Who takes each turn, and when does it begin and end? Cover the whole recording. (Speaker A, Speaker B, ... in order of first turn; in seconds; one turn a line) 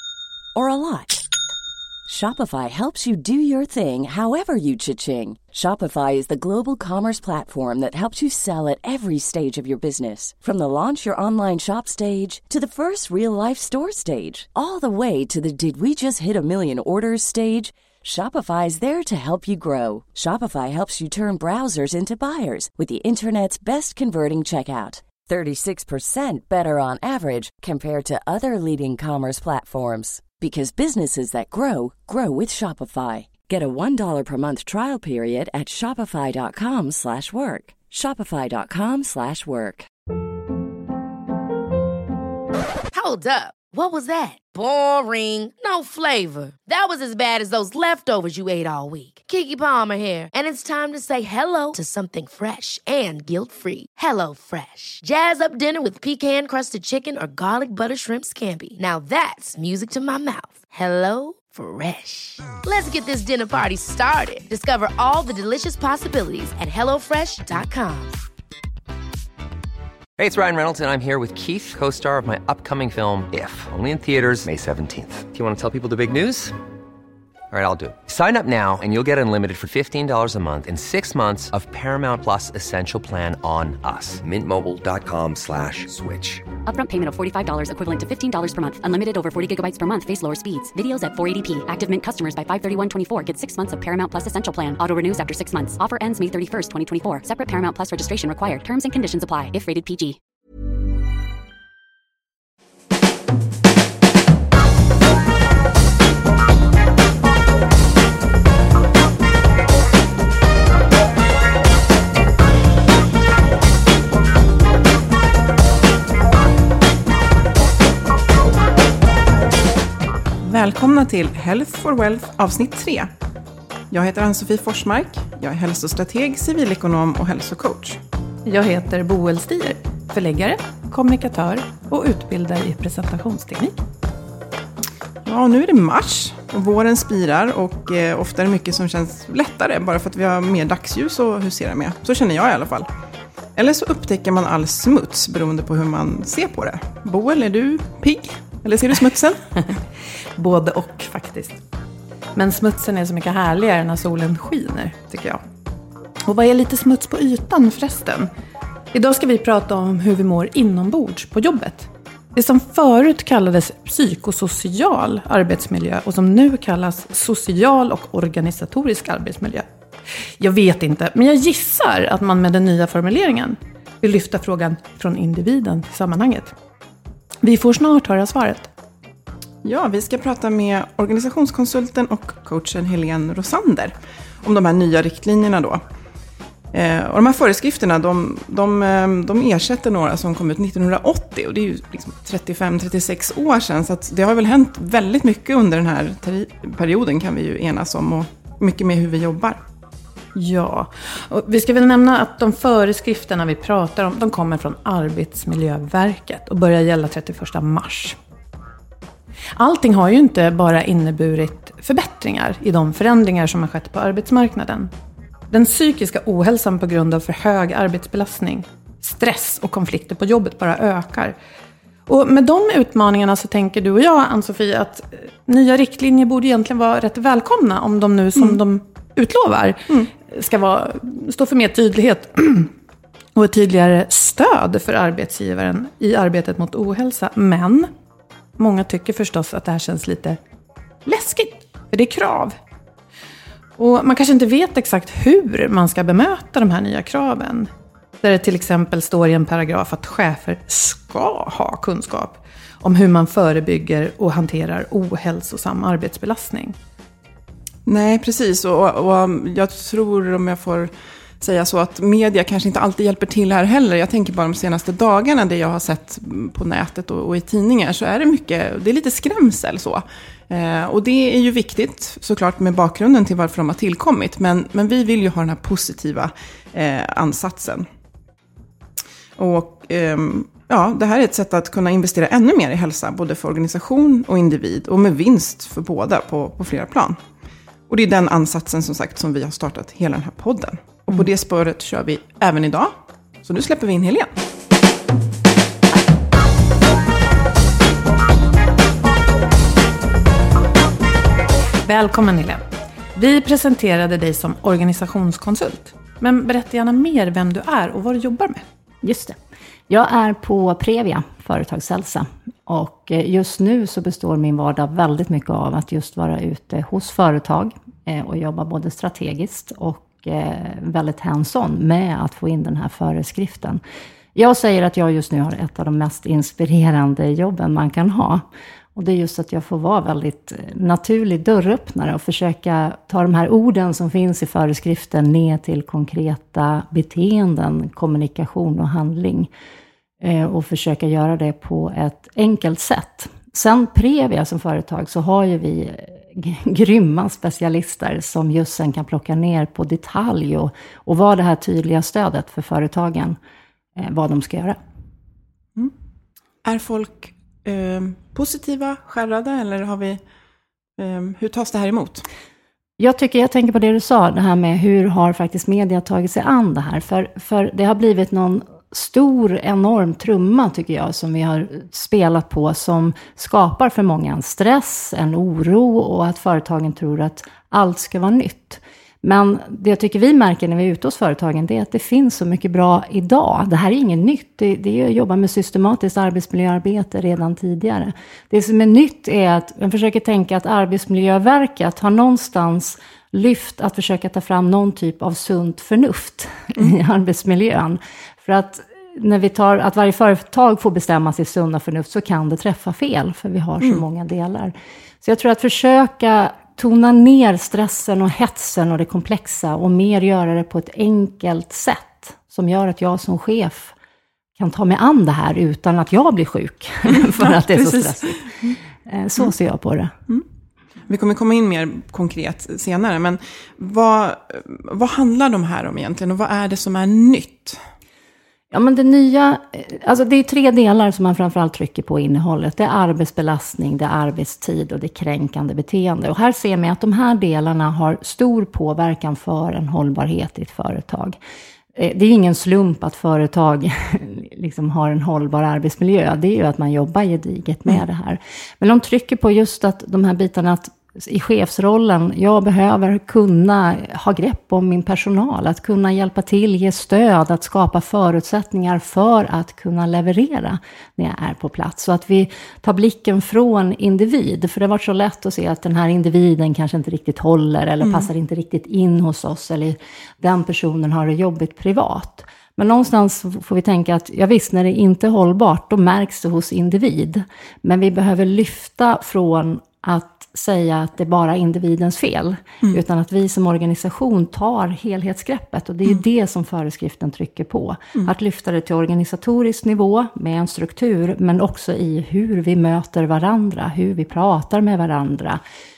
Speaker A: 0.6-1.2
Speaker A: 2.1-39.9
Speaker B: 42.9-68.2
Speaker C: 70.2-76.5
Speaker C: 77.5-86.5
Speaker D: 86.7-100.2
Speaker E: 120.4-123.1
Speaker E: 123.9-128.0
Speaker F: 128.5-133.8
Speaker E: 135.2-142.9
Speaker E: 143.6-149.6
Speaker F: 150.3-151.6
Speaker F: 152.3-155.4
Speaker F: 156.2-158.3
Speaker F: 158.9-169.7
Speaker F: 170.4-176.6
Speaker F: 177.4-178.7
Speaker E: 179.6-185.8
Speaker E: 186.7-199.6
Speaker F: 200.3-208.2
Speaker F: 209.6-214.9
Speaker F: 215.5-221.4
Speaker F: 222.1-232.7
Speaker F: 233.3-237.9
Speaker F: 238.6-240.4
Speaker F: 241.1-242.6
Speaker F: 243.8-247.7
Speaker F: 248.2-256.8
Speaker E: 257.9-277.9
Speaker E: 279.4-287.2
Speaker E: 287.9-294.3
Speaker F: 301.8-308.6
Speaker G: 309.0-309.4
Speaker G: 309.9-323.8
Speaker G: 324.4-328.4
Speaker G: 328.9-339.5
Speaker G: 340.2-353.4
Speaker G: 354.0-354.8
Speaker E: 356.6-360.2
Speaker E: 361.0-362.3
Speaker G: 363.0-413.9
Speaker G: 414.6-420.1
Speaker E: 417.1-418.8
Speaker E: 421.1-427.8
Speaker G: 428.7-441.4
Speaker G: 442.0-495.6
Speaker E: 468.0-468.3